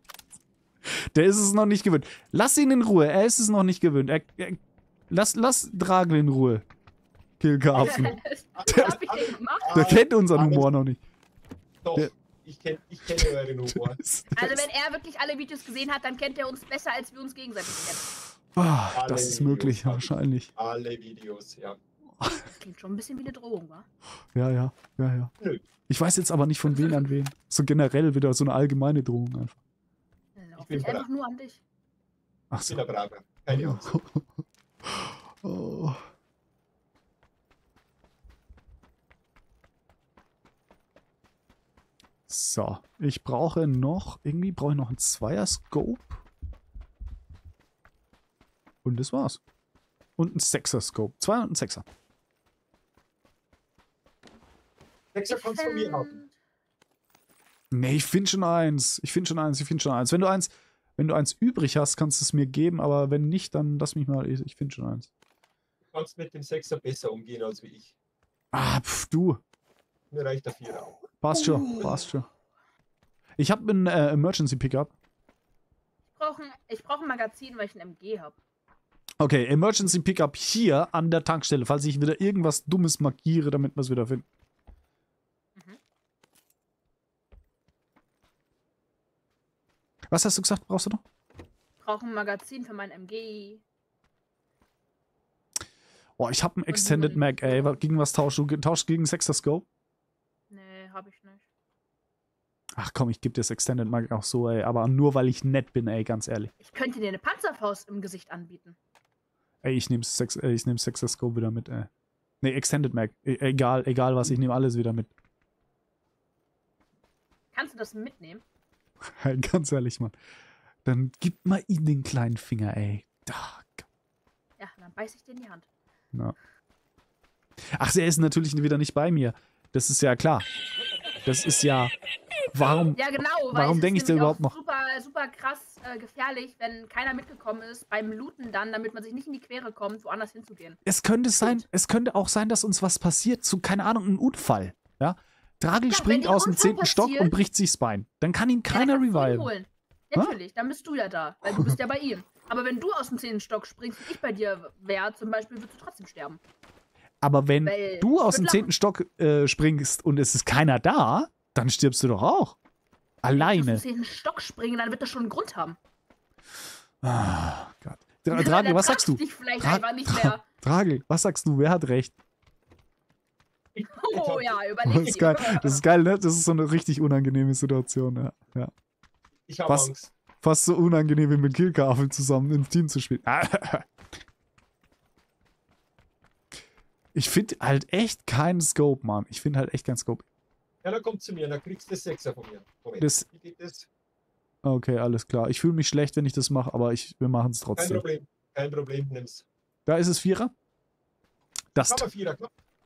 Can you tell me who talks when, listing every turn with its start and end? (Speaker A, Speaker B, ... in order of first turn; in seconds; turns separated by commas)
Speaker A: 0.8-6.7, Speaker A: 7.4-9.0, Speaker B: 7.7-10.7, Speaker C: 7.8-9.7, Speaker A: 9.7-11.0, Speaker B: 11.8-14.0, Speaker A: 13.2-14.7, Speaker C: 14.3-18.1, Speaker A: 18.6-20.5, Speaker B: 18.9-21.8, Speaker A: 22.2-22.4, Speaker C: 22.4-23.9, Speaker A: 24.3-25.3, Speaker B: 25.4-25.6, Speaker A: 25.9-29.6, Speaker C: 30.4-31.6, Speaker B: 30.6-31.1, Speaker A: 32.5-32.8, Speaker B: 32.7-34.0, Speaker A: 33.5-34.2, Speaker A: 34.9-36.0, Speaker A: 42.3-46.2, Speaker A: 48.8-49.4, Speaker A: 50.2-51.9, Speaker B: 55.1-56.2, Speaker C: 55.3-56.4, Speaker A: 57.7-65.1, Speaker B: 65.9-68.0, Speaker A: 68.5-69.4, Speaker B: 70.1-71.0, Speaker A: 71.2-72.3, Speaker C: 71.3-72.0, Speaker A: 73.4-74.9, Speaker C: 76.2-78.4, Speaker A: 79.2-84.2, Speaker A: 90.1-91.0, Speaker C: 91.8-93.6, Speaker A: 96.2-99.7, Speaker C: 96.7-97.8, Speaker C: 100.5-101.5, Speaker A: 102.8-106.5, Speaker C: 106.6-108.8, Speaker A: 109.6-111.9, Speaker A: 112.4-115.1, Speaker C: 117.5-118.4, Speaker A: 119.1-120.2, Speaker A: 120.8-123.9, Speaker C: 124.6-125.7, Speaker A: 127.7-130.5, Speaker A: 131.2-131.9, Speaker A: 132.5-133.0, Speaker C: 132.9-140.8, Speaker A: 133.5-134.6, Speaker A: 140.8-149.5, Speaker C: 145.9-147.3, Speaker C: 148.7-156.4, Speaker A: 151.5-151.8, Speaker A: 157.2-162.6, Speaker C: 157.6-158.7, Speaker A: 163.2-163.8, Speaker C: 163.3-165.8, Speaker A: 167.0-172.2, Speaker C: 168.3-170.4, Speaker B: 173.8-174.6, Speaker C: 173.9-175.8, Speaker A: 174.9-178.7, Speaker B: 179.5-180.1, Speaker A: 180.4-183.9, Speaker A: 187.1-190.2, Speaker B: 190.8-193.9, Speaker A: 193.0-193.3, Speaker A: 194.7-198.0, Speaker B: 197.8-199.5, Speaker A: 199.9-200.5, Speaker A: 201.8-202.1, Speaker B: 201.8-202.5